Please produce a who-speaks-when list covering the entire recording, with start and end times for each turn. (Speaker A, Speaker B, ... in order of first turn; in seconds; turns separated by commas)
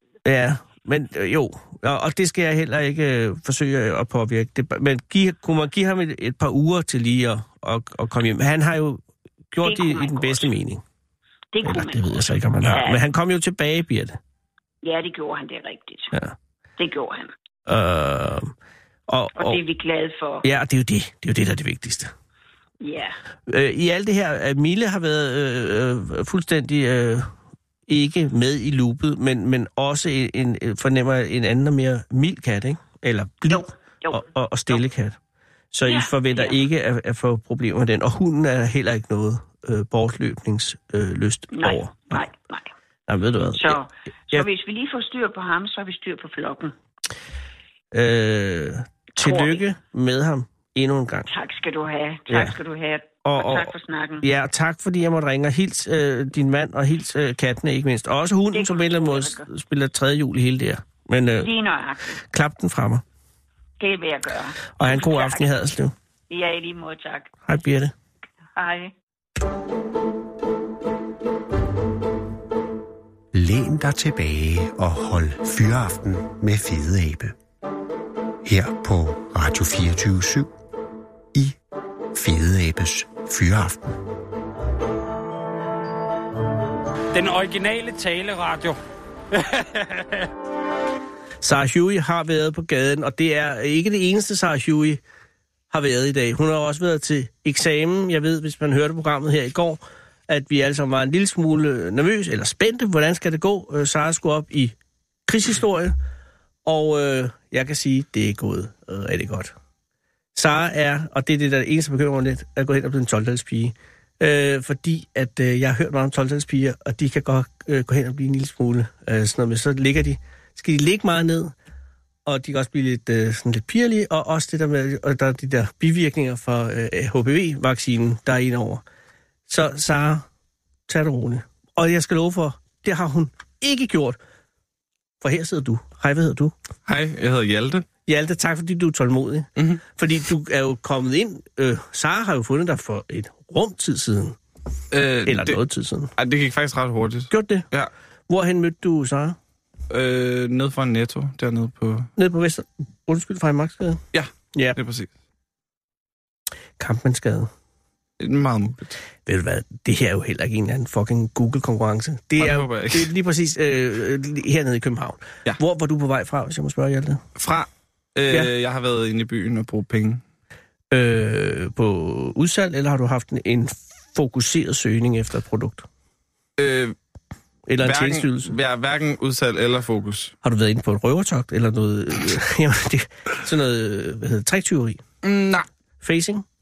Speaker A: 0.2-10.8, Speaker B: 9.6-10.5, Speaker B: 11.5-13.0, Speaker A: 11.6-14.2, Speaker B: 14.8-16.2, Speaker B: 16.8-17.3, Speaker A: 17.7-18.5, Speaker A: 19.1-19.6, Speaker B: 19.4-20.5, Speaker A: 20.4-22.1, Speaker B: 22.8-23.2, Speaker A: 23.5-27.3, Speaker A: 27.9-35.2, Speaker B: 33.5-34.8, Speaker A: 35.7-42.2, Speaker B: 35.9-36.6, Speaker B: 41.5-42.7, Speaker A: 43.1-43.8, Speaker B: 43.5-46.8, Speaker A: 47.9-51.3, Speaker B: 49.2-49.6, Speaker B: 51.3-54.3, Speaker A: 52.3-52.5, Speaker A: 53.2-61.5, Speaker B: 58.5-59.5, Speaker B: 61.4-62.2, Speaker A: 62.2-63.0, Speaker B: 63.8-65.5, Speaker A: 64.8-65.9, Speaker B: 66.3-67.3, Speaker A: 67.5-67.9, Speaker B: 68.6-68.9, Speaker C: 73.3-77.3, Speaker C: 78.4-80.5, Speaker C: 82.1-84.0, Speaker D: 87.1-88.8, Speaker D: 89.3-90.3, Speaker A: 91.4-95.0, Speaker A: 95.7-104.8, Speaker A: 105.3-106.0, Speaker A: 106.7-109.5, Speaker A: 110.3-121.5, Speaker A: 122.2-128.8, Speaker A: 129.5-130.3, Speaker A: 130.9-134.2, Speaker A: 135.2-136.6, Speaker E: 136.9-137.9, Speaker A: 138.1-144.4, Speaker E: 144.9-145.6, Speaker A: 145.3-146.1, Speaker E: 146.2-147.9, Speaker A: 147.3-147.7, Speaker A: 148.3-149.4, Speaker E: 149.9-152.1, Speaker A: 152.2-154.0, Speaker E: 154.1-155.1, Speaker A: 154.5-154.8, Speaker A: 156.8-157.5, Speaker E: 158.2-159.0, Speaker A: 159.3-167.2, Speaker E: 162.4-163.1, Speaker E: 167.4-170.2, Speaker A: 170.9-175.9, Speaker E: 176.6-176.9, Speaker A: 177.7-178.6, Speaker E: 177.8-180.3, Speaker A: 180.4-185.0, Speaker E: 185.2-185.7, Speaker A: 186.0-186.4